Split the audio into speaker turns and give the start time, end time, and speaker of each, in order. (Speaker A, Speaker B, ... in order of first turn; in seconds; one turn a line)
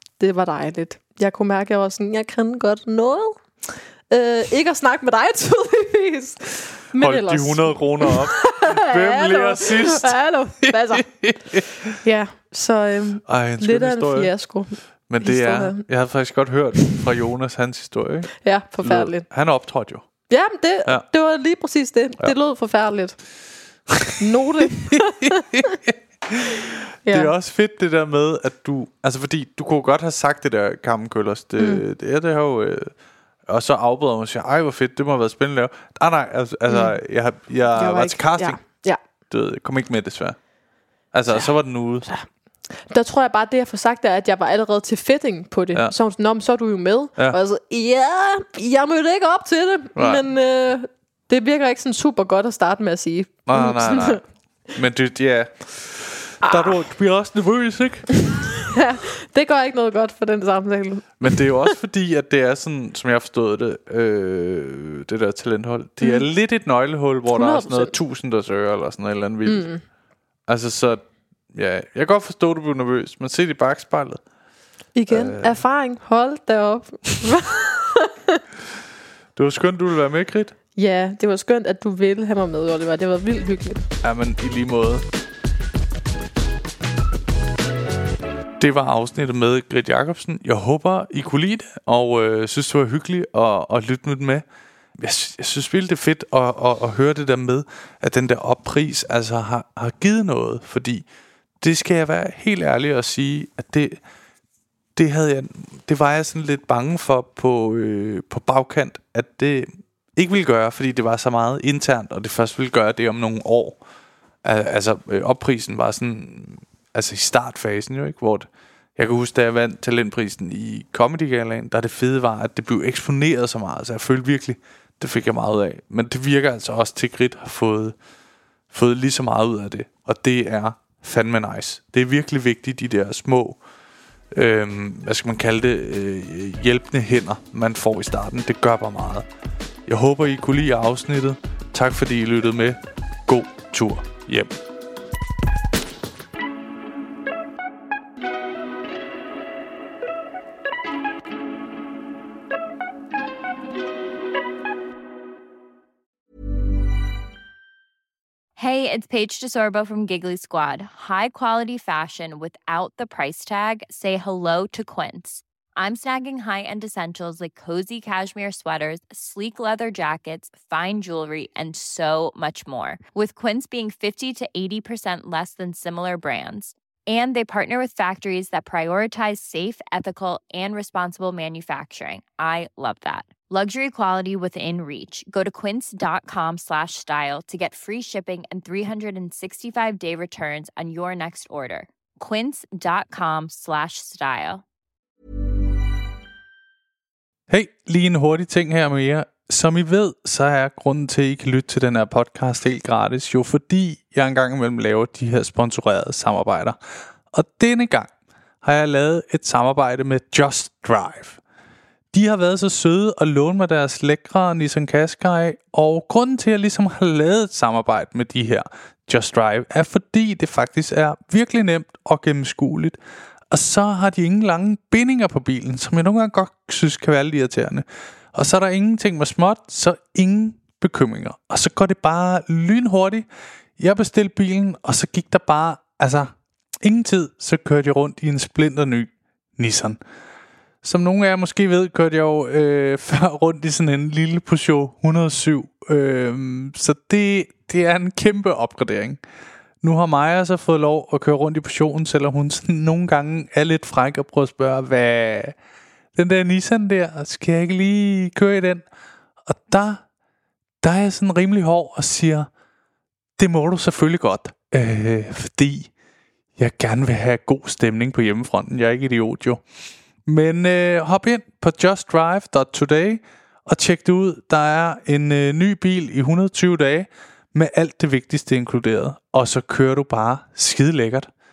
Speaker A: 0.2-11.1
Speaker B: 7.0-11.9
Speaker A: 11.9-15.8
Speaker B: 13.3-14.3
Speaker B: 15.1-20.1
Speaker A: 18.4-19.2
Speaker A: 20.3-23.2
Speaker A: 24.2-25.7
Speaker B: 25.0-32.9
Speaker A: 27.1-27.3
Speaker A: 31.6-31.8
Speaker B: 33.5-40.4
Speaker A: 36.7-36.9
Speaker A: 37.8-39.0
Speaker B: 41.1-42.1
Speaker A: 42.8-54.2
Speaker B: 50.0-50.2
Speaker B: 53.5-54.2
Speaker B: 54.7-58.3
Speaker A: 56.4-56.8
Speaker A: 58.7-61.7
Speaker B: 61.2-69.7
Speaker A: 66.0-66.3
Speaker A: 67.3-67.9
Speaker A: 69.5-69.8
Speaker B: 70.5-71.0
Speaker B: 71.5-74.2
Speaker A: 75.0-78.4
Speaker B: 75.1-75.6
Speaker B: 79.4-80.5
Speaker A: 80.8-83.8
Speaker B: 84.0-85.0
Speaker B: 88.6-94.4
Speaker B: 95.0-101.0
Speaker B: 101.6-104.0
Speaker B: 105.0-113.8
Speaker B: 114.4-128.0
Speaker B: 128.7-133.6
Speaker B: 134.3-139.3
Speaker B: 139.9-144.6
Speaker C: 158.6-194.6
Speaker B: 197.5-206.8
Speaker B: 207.3-208.1
Speaker B: 208.6-211.4
Speaker B: 212.1-223.0
Speaker B: 223.5-233.2
Speaker B: 233.8-240.0
Speaker B: 240.8-249.2
Speaker B: 249.8-255.6
Speaker B: 256.2-258.8
Speaker B: 259.5-260.0
Speaker B: 260.8-262.5
Speaker B: 263.4-265.9
Speaker B: 266.6-269.6
Speaker B: 270.3-281.3